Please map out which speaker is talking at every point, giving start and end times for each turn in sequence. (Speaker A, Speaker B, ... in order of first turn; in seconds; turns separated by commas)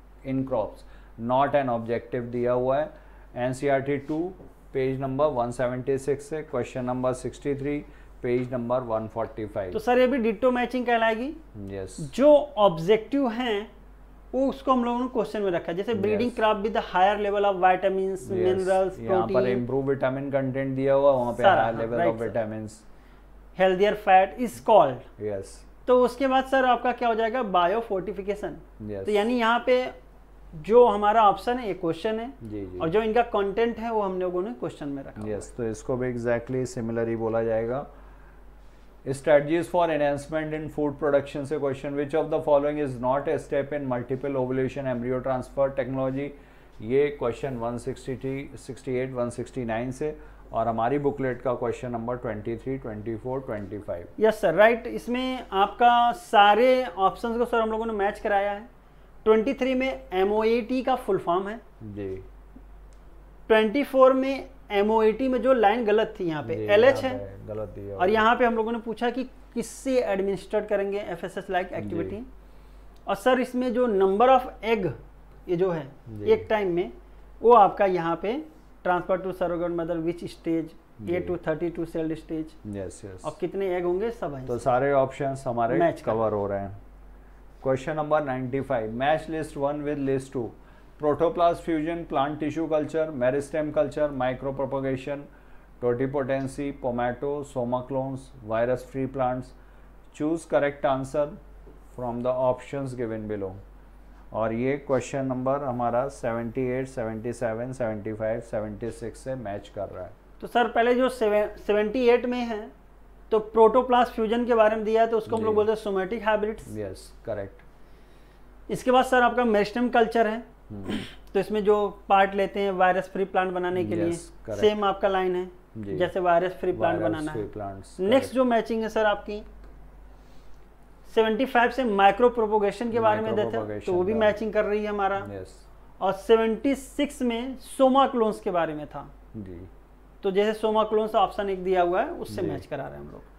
Speaker A: 0.2-9.8, Speaker B: 9.7-11.4, Speaker A: 11.5-12.1, Speaker B: 12.0-13.7, Speaker B: 14.3-19.6, Speaker A: 15.9-16.4, Speaker A: 18.2-22.8, Speaker B: 21.4-22.4, Speaker B: 23.6-25.1, Speaker A: 25.2-25.6, Speaker B: 25.9-29.9, Speaker A: 28.8-29.2, Speaker B: 30.5-35.5, Speaker A: 32.4-32.9, Speaker A: 35.2-37.9, Speaker A: 39.0-54.1, Speaker B: 54.2-58.7, Speaker B: 59.2-61.6, Speaker A: 61.8-62.2, Speaker B: 63.5-67.2, Speaker A: 66.5-68.2, Speaker B: 68.0-72.3, Speaker A: 71.8-72.2, Speaker B: 73.1-75.0, Speaker B: 75.5-82.6, Speaker A: 76.1-76.5, Speaker A: 81.0-81.4, Speaker A: 82.6-83.4, Speaker B: 83.2-84.6, Speaker A: 84.5-86.8, Speaker B: 85.7-86.2, Speaker A: 87.6-95.3, Speaker A: 95.8-99.5, Speaker A: 100.1-101.4, Speaker A: 101.9-103.6, Speaker A: 104.3-110.1, Speaker B: 110.4-112.7, Speaker B: 113.3-116.7, Speaker A: 115.3-115.7, Speaker A: 116.6-117.6, Speaker B: 118.7-127.5, Speaker A: 120.7-121.0, Speaker A: 123.7-124.8, Speaker A: 125.8-126.1, Speaker A: 126.7-128.3, Speaker B: 128.0-129.4, Speaker B: 131.1-135.3, Speaker A: 132.9-134.3, Speaker A: 135.2-135.6, Speaker B: 136.0-139.1, Speaker A: 139.3-139.7, Speaker B: 140.2-143.3, Speaker A: 142.3-142.6